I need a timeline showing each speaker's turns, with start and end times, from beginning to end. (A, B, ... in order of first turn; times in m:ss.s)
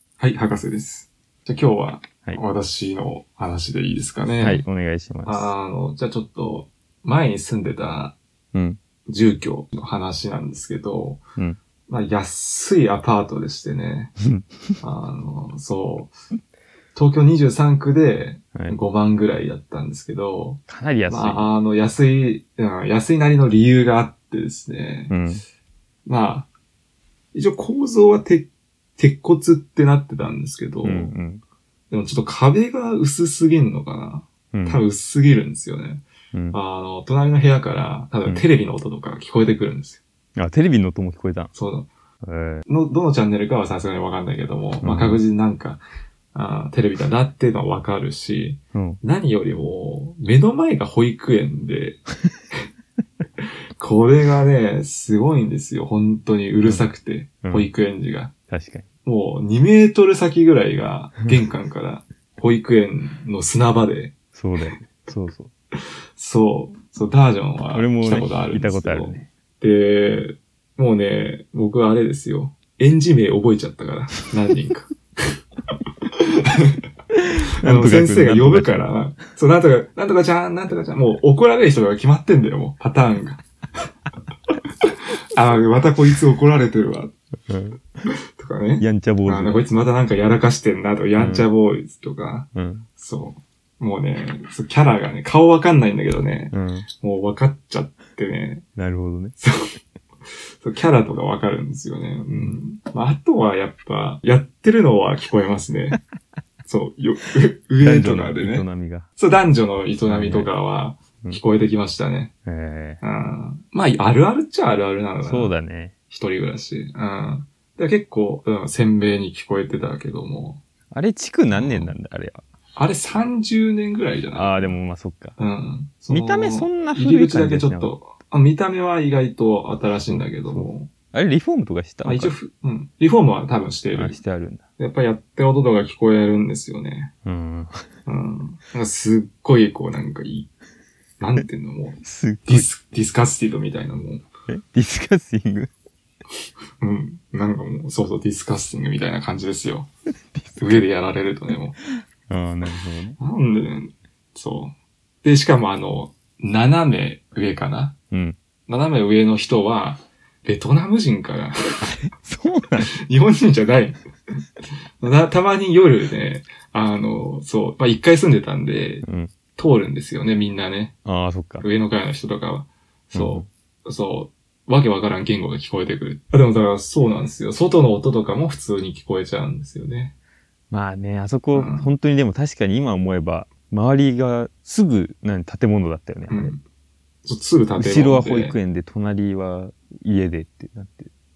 0:00.2-0:04.6 A
0:04.4-0:05.5 B
0:05.2-0:08.2 A
0:08.5-0:08.8 B
0:09.1-0:11.2 A
0:11.9-0:14.1 A
0:14.8-0:16.1 A
0:16.9-0:25.1 A
0:20.7-0:21.5 B
0:25.1-0:25.4 B
0:26.0-0:26.5 A
0:27.3-0:31.1 A
0:30.8-0:31.4 B
0:31.9-0:40.0 A
0:34.5-0:34.8 B
0:36.3-0:36.6 B
0:40.4-0:41.5 B
0:41.5-0:41.9 A
0:42.2-0:42.6 B
0:42.6-0:45.8 A
0:44.8-0:45.2 B
0:46.3-0:52.0 A
0:48.7-0:49.0 B
0:53.8-0:58.3 A
0:56.6-0:56.9 B
0:57.4-0:57.7 B
0:58.5-0:58.9 B
0:59.0-1:04.1 A
1:04.3-1:05.5 B
1:06.2-1:14.9 A
1:07.7-1:09.3 B
1:16.5-1:16.8 A
1:17.6-1:18.9 B
1:17.6-1:23.4 A
1:25.3-1:27.1 A
1:27.5-1:27.8 B
1:28.4-1:38.6 A
1:28.8-1:29.6 B
1:31.2-1:31.5 B
1:32.5-1:32.9 B
1:36.5-1:36.9 B
1:38.8-1:39.4 B
1:40.6-1:46.0 A
1:42.3-1:42.6 B
1:46.6-1:48.6 A
1:47.8-1:49.1 B
1:49.2-1:52.3 A
1:50.0-1:50.5 B
1:52.5-1:53.0 B
1:53.0-1:55.5 A
1:55.2-1:55.9 B
1:56.1-2:00.6 A
2:00.9-2:02.4 B
2:01.5-2:01.9 A
2:02.8-2:04.8 A
2:04.3-2:05.4 B
2:05.4-2:10.9 A
2:06.1-2:07.9 B
2:10.1-2:12.3 B
2:12.0-2:14.2 A
2:13.9-2:14.6 B
2:14.8-2:17.1 A
2:17.2-2:17.8 B
2:18.0-2:20.5 A
2:21.2-2:24.2 A
2:22.0-2:22.7 B
2:24.5-2:25.7 B
2:26.8-2:29.9 A
2:30.4-2:30.8 B
2:30.6-2:31.8 A
2:32.3-2:33.2 B
2:33.2-2:38.0 A
2:38.1-2:38.4 B
2:38.7-2:41.8 A
2:41.8-2:42.9 B
2:43.0-2:44.0 A
2:45.0-2:49.0 A
2:49.0-2:49.3 B
2:49.6-2:50.9 A
2:51.0-2:51.6 B
2:51.6-3:00.1 A
2:53.1-2:53.5 B
3:00.7-3:06.5 B
3:01.5-3:01.9 A
3:06.3-3:06.6 A
3:07.2-3:08.6 A
3:07.8-3:11.1 B